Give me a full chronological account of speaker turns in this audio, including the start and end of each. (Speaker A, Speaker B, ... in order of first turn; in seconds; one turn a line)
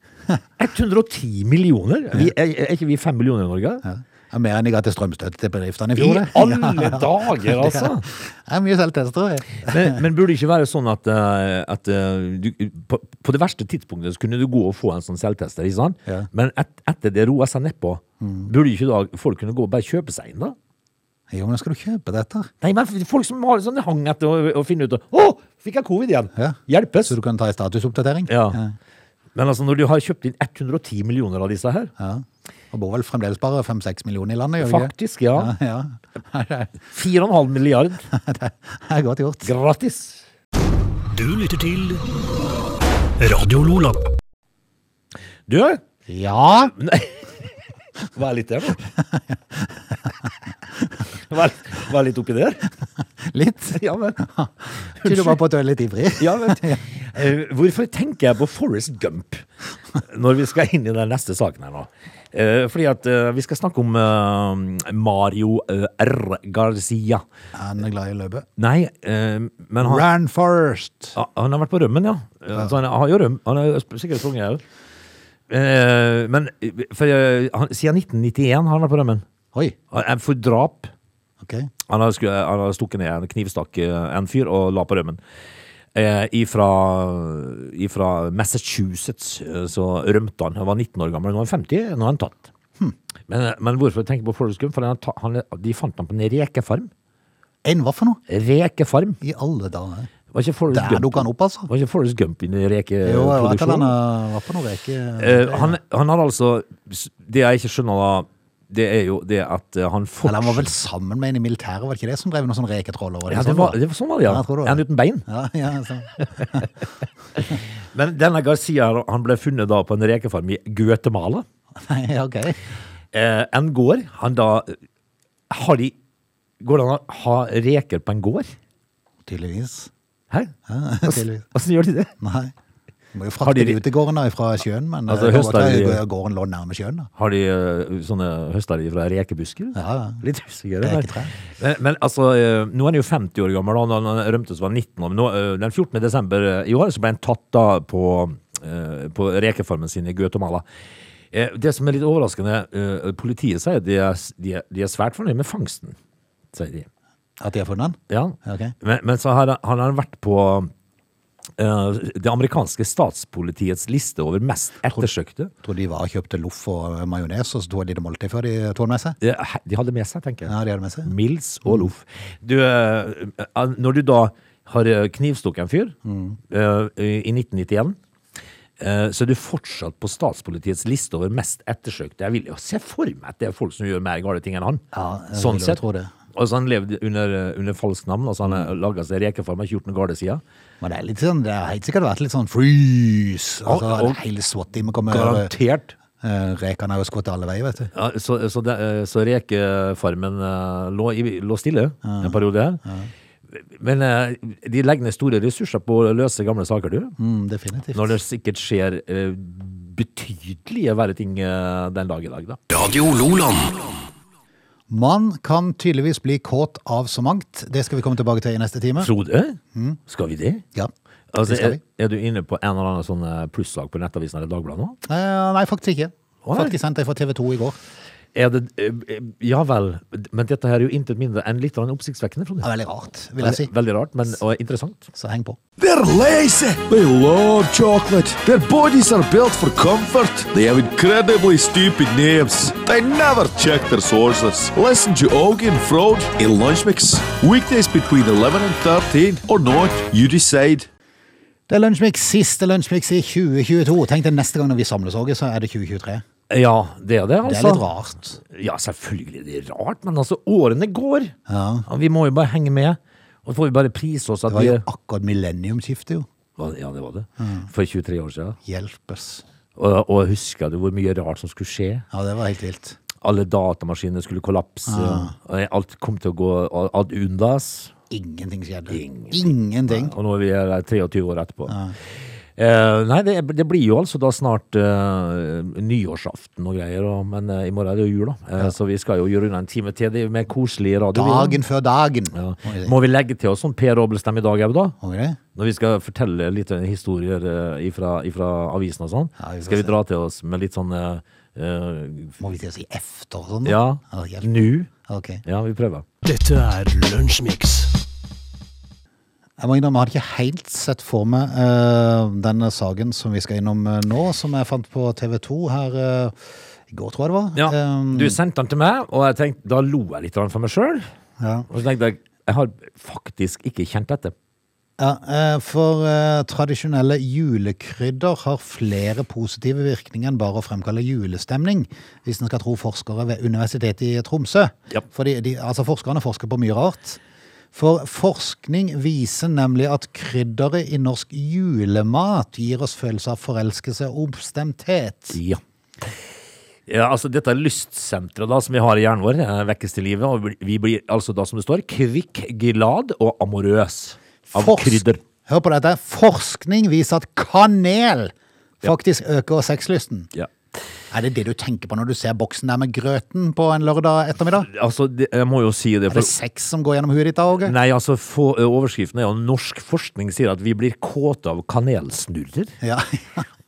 Speaker A: 0.6-3.8
Speaker B: 3.8-10.0
Speaker A: 6.0-8.0
Speaker A: 9.6-20.6
Speaker B: 18.2-18.5
Speaker B: 21.3-22.5
Speaker A: 22.6-27.1
Speaker B: 26.4-28.8
Speaker A: 28.3-28.6
Speaker A: 29.3-31.9
Speaker B: 32.0-36.7
Speaker A: 34.6-35.5
Speaker A: 36.9-38.0
Speaker B: 38.1-39.5
Speaker A: 39.4-40.2
Speaker C: 41.1-42.0
Speaker C: 43.2-44.0
Speaker A: 45.5-45.8
Speaker B: 46.1-46.7
Speaker A: 46.7-47.5
Speaker A: 48.1-48.9
Speaker A: 51.1-52.6
Speaker B: 53.2-56.9
Speaker A: 53.7-54.2
Speaker A: 55.0-55.4
Speaker A: 56.2-59.5
Speaker A: 60.0-67.2
Speaker B: 67.5-68.5
Speaker A: 68.6-70.0
Speaker B: 69.8-71.2
Speaker A: 71.1-74.6
Speaker A: 75.5-79.2
Speaker A: 79.9-80.9
Speaker B: 81.4-81.7
Speaker A: 81.9-85.2
Speaker A: 85.9-92.5
Speaker A: 93.3-96.9
Speaker B: 97.6-98.2
Speaker A: 98.3-99.2
Speaker B: 99.2-100.1
Speaker A: 100.3-104.0
Speaker B: 100.7-101.7
Speaker B: 103.0-105.8
Speaker A: 105.2-110.7
Speaker B: 110.2-116.7
Speaker A: 113.3-115.2
Speaker A: 117.4-121.4
Speaker B: 121.8-122.6
Speaker A: 123.1-124.8
Speaker A: 125.5-125.9
Speaker A: 126.6-128.5
Speaker B: 129.2-129.9
Speaker B: 130.7-131.4
Speaker A: 131.0-132.1
Speaker B: 132.2-132.5
Speaker B: 133.1-137.1
Speaker A: 133.4-133.8
Speaker A: 135.1-136.0
Speaker A: 137.2-150.6
Speaker B: 139.7-140.2
Speaker B: 140.8-141.3
Speaker A: 151.3-155.9
Speaker A: 156.5-156.9
Speaker B: 157.4-158.7
Speaker A: 158.1-160.7
Speaker A: 161.6-165.5
Speaker B: 165.6-169.2
Speaker A: 169.2-175.9
Speaker B: 170.5-171.1
Speaker B: 171.6-171.9
Speaker B: 176.0-176.4
Speaker A: 176.5-178.0
Speaker A: 178.8-185.8
Speaker B: 184.9-186.1
Speaker A: 186.3-190.4
Speaker B: 190.8-195.5
Speaker A: 193.6-194.2
Speaker A: 195.1-195.9
Speaker B: 196.2-197.9
Speaker A: 197.9-202.8
Speaker B: 202.0-203.1
Speaker A: 203.5-207.1
Speaker B: 207.2-208.2
Speaker A: 207.9-212.6
Speaker C: 212.7-213.9
Speaker B: 214.9-219.1
Speaker A: 219.0-220.6
Speaker B: 219.7-220.0
Speaker A: 221.3-225.0
Speaker B: 221.4-221.8
Speaker B: 225.0-227.8
Speaker A: 226.4-226.7
Speaker A: 228.3-232.7
Speaker B: 232.6-233.7
Speaker A: 233.4-235.1
Speaker B: 235.1-235.6
Speaker D: 235.8-250.9
Speaker B: 251.7-256.2
Speaker A: 256.5-257.8
Speaker B: 257.4-258.4
Speaker A: 258.4-261.3
Speaker B: 261.5-261.9
Speaker A: 261.9-264.8
Speaker B: 264.5-266.2
Speaker A: 266.6-268.6
Speaker B: 267.4-267.7
Speaker B: 268.6-269.4
Speaker A: 269.8-272.0
Speaker B: 272.1-273.0
Speaker A: 273.2-277.9
Speaker B: 274.9-275.3
Speaker B: 278.1-280.1
Speaker A: 278.9-291.6
Speaker B: 281.7-281.9
Speaker B: 291.1-292.9
Speaker A: 292.3-294.9
Speaker B: 295.0-295.4
Speaker A: 295.5-302.4
Speaker B: 299.4-299.9
Speaker B: 302.4-305.4
Speaker A: 303.6-304.9
Speaker A: 305.4-306.0
Speaker C: 306.2-307.9
Speaker B: 309.6-316.3
Speaker B: 316.9-318.4
Speaker A: 317.5-321.1
Speaker B: 321.4-321.7
Speaker A: 321.7-324.3
Speaker B: 325.0-337.2
Speaker B: 337.7-345.4
Speaker A: 345.3-345.6
Speaker A: 346.9-355.2
Speaker B: 354.5-360.3
Speaker B: 361.1-364.7
Speaker A: 364.6-366.3
Speaker B: 366.1-367.7
Speaker A: 367.6-372.7
Speaker B: 372.8-373.4